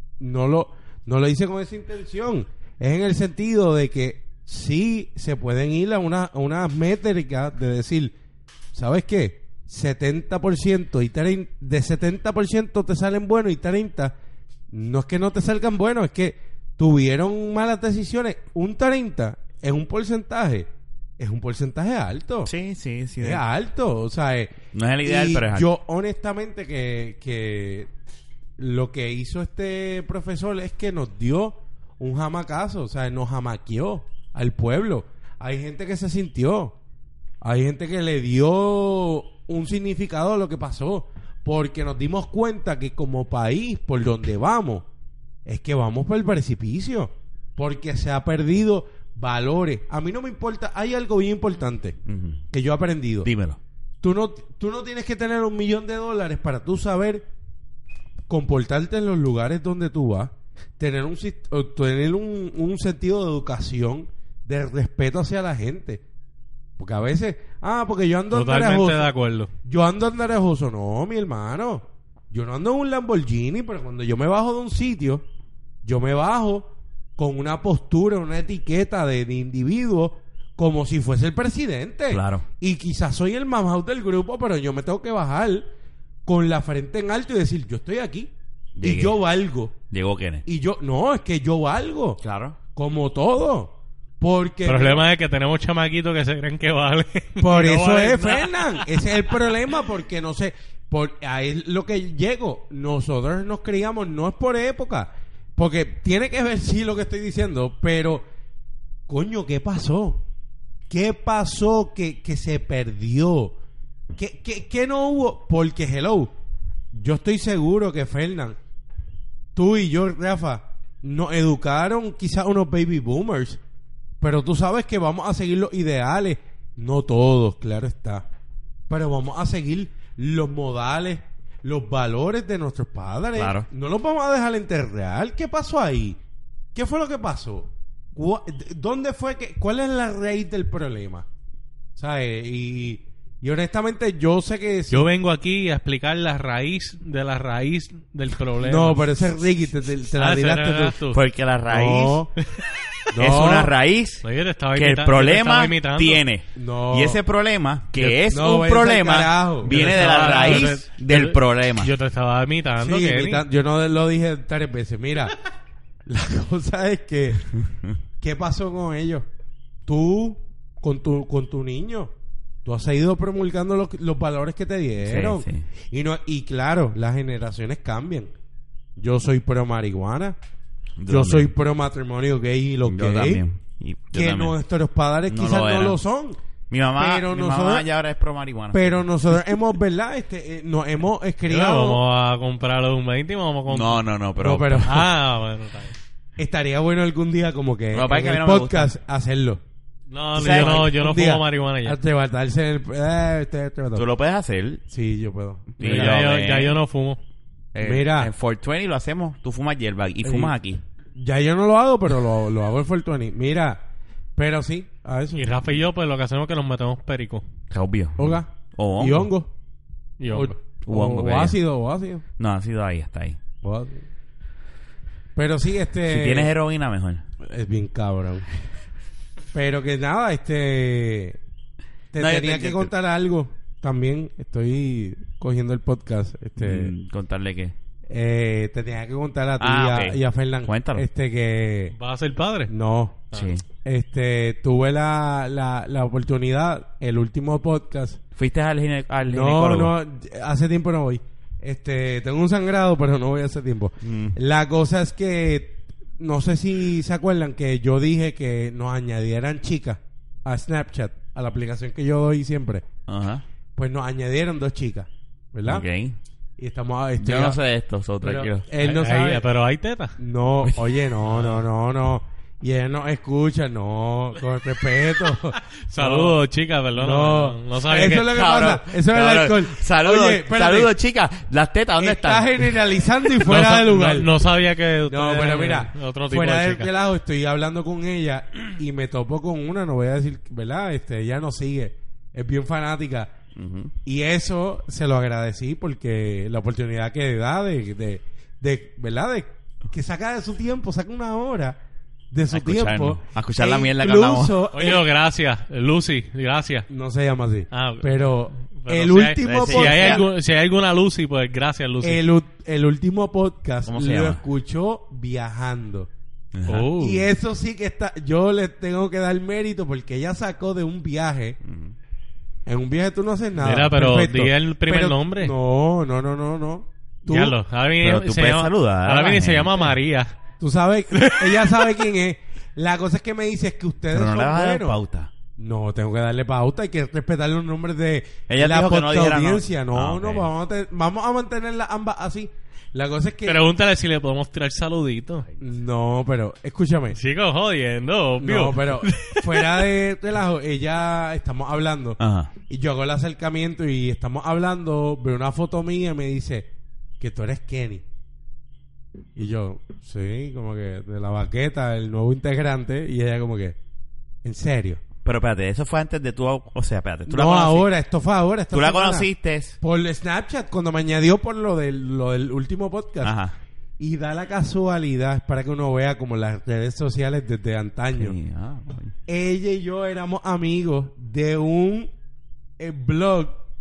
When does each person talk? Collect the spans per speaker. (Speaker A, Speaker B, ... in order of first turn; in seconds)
Speaker A: 0.2-8.1, 8.7-14.1, 14.7-22.5, 23.2-27.9, 28.6-36.8, 37.4-44.8, 45.5-52.0, 52.5-53.3, 54.0-57.2, 58.3-66.0, 66.8-69.1, 69.6-75.2, 75.8-85.7, 86.2-89.8, 90.5-92.2, 92.7-95.0, 97.4-108.2, 109.1-110.2, 110.9-113.6, 114.2-116.3, 116.9-118.6, 119.5-123.6, 124.2-128.2, 128.9-136.2, 136.7-141.2, 141.9-145.1, 148.6-151.0, 151.7-152.3, 153.1-153.7, 156.5-157.2, 157.9-160.6, 162.8-165.3, 166.1-167.5, 168.2-169.2, 169.8-172.1, 172.6-178.3, 179.0-180.4, 181.1-183.4, 184.1-186.4, 187.0-187.9, 188.7-192.0, 194.4-195.1, 196.4-199.6, 200.3-204.1, 204.9-206.2, 207.8-208.3, 210.2-210.5, 211.1-213.8, 214.3-215.5, 218.2-219.5, 220.3-222.2, 223.6-224.0, 225.3-226.5, 227.4-228.4, 229.5-231.4, 232.1-236.9, 238.1-241.9, 242.7-243.3, 243.8-248.2, 249.2-262.9, 263.8-265.9, 266.6-267.6, 268.2-269.4, 270.2-276.4, 277.0-280.9, 282.0-284.3, 285.1-293.3, 294.0-301.8, 302.3-305.0, 306.9-310.3, 312.0-316.1, 317.0-321.6, 322.6-327.6, 330.6-335.0, 335.6-343.6, 345.6-347.2, 348.4-352.2, 352.7-356.7, 357.2-358.0, 359.4-363.8, 364.4-365.0, 367.3-369.3, 369.8-373.3, 374.0-378.4, 379.3-382.1, 382.8-383.6
Speaker B: 22.5-23.4, 24.7-25.7, 52.1-52.4, 53.2-53.6, 82.1-82.4, 88.8-89.2, 89.9-90.4, 92.2-92.6, 133.3-133.7, 151.1-152.2, 153.2-154.2, 154.7-161.9, 175.0-175.7, 181.0-181.5, 182.8-184.5, 185.3-186.0, 186.7-189.0, 193.7-195.1, 197.9-198.9, 200.4-200.9, 203.9-204.8, 205.8-206.8, 207.7-210.8, 217.7-219.3, 220.8-221.6, 222.4-223.4, 226.0-227.2, 232.2-232.9, 236.6-237.7, 239.6-241.1, 243.3-243.6, 248.3-249.9, 254.0-254.3, 263.1-263.4, 265.6-266.1, 267.2-268.7, 278.2-282.7, 293.6-293.9, 302.5-304.6, 309.4-310.2, 313.9-314.4, 316.5-316.9, 321.6-321.9, 328.0-329.9, 334.1-335.3, 338.5-340.5, 352.2-352.5, 365.2-367.9, 368.7-369.8, 373.2-373.5, 378.1-379.1
Speaker C: 68.3-69.5, 94.6-98.9, 144.9-149.1, 150.2-151.2, 154.2-156.2, 159.7-163.4, 191.5-194.0, 194.8-195.9, 200.1-202.0, 205.8-207.2, 215.3-217.4, 220.2-220.6, 241.9-242.7, 268.8-270.2, 271.3-271.6, 275.9-278.3, 283.4-286.9, 304.7-306.9, 307.7-312.2, 316.7-317.3, 323.6-325.5, 327.3-330.3, 331.1-332.0, 343.4-345.4, 347.1-349.8